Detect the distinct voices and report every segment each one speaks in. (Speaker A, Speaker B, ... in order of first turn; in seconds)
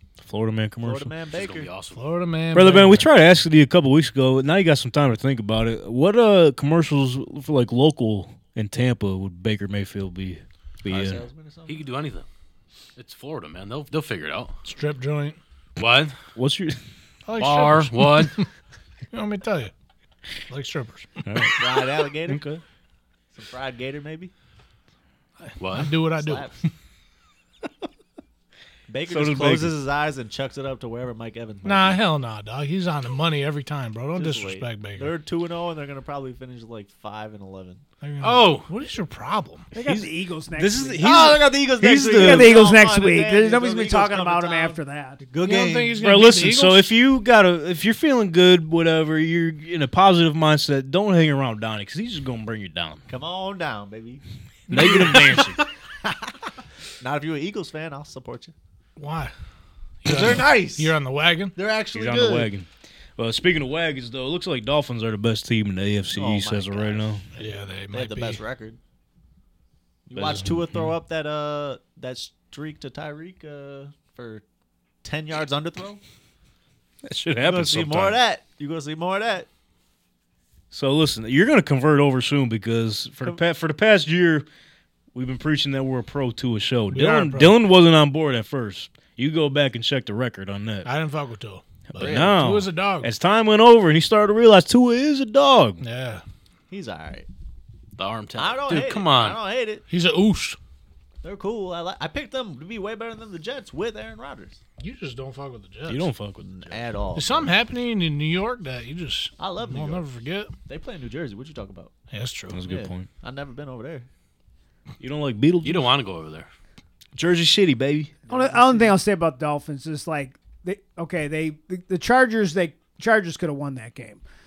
Speaker A: 0.2-1.1, 2.5-11.2, 16.3-16.8, 21.2-22.6, 29.1-29.7, 39.8-42.6, 46.0-53.0, 54.7-55.6, 61.9-67.2, 70.1-70.9, 77.0-78.2, 80.7-84.5, 85.1-90.9, 91.9-95.8, 105.8-106.8, 112.5-113.1, 115.0-115.9, 117.1-118.2
Speaker B: 0.8-1.7, 10.8-11.9, 21.6-22.4, 23.3-24.3, 26.1-26.6, 28.9-32.0, 34.1-37.8, 41.0-46.0, 53.1-54.2, 54.8-55.3, 56.0-56.3, 57.0-58.5, 60.0-60.9, 61.5-62.5, 66.1-67.2, 67.9-68.8, 70.1-74.4, 75.0-76.0, 77.4-79.5, 92.0-92.3, 96.7-97.3, 98.3-99.8, 101.2-104.6, 106.4-107.5, 109.4-110.0, 110.7-111.9, 112.7-114.1, 118.3-119.0
Speaker C: 1.3-2.0, 11.7-12.2, 13.0-14.5, 15.8-16.1, 17.4-18.3, 25.6-25.9, 38.2-38.7, 98.0-99.4, 115.6-116.5
Speaker D: 1.9-3.1, 14.7-15.4, 17.2-18.5, 19.1-19.7, 20.5-21.2, 25.4-26.7, 31.6-35.1, 38.0-39.7, 45.4-46.9, 59.0-59.3, 60.0-61.5, 67.3-68.4, 86.9-87.5, 90.8-93.1, 95.8-96.2, 99.9-100.6, 104.8-106.1, 107.1-110.5, 112.1-112.6
Speaker E: 39.7-41.3, 42.1-45.2, 118.3-124.2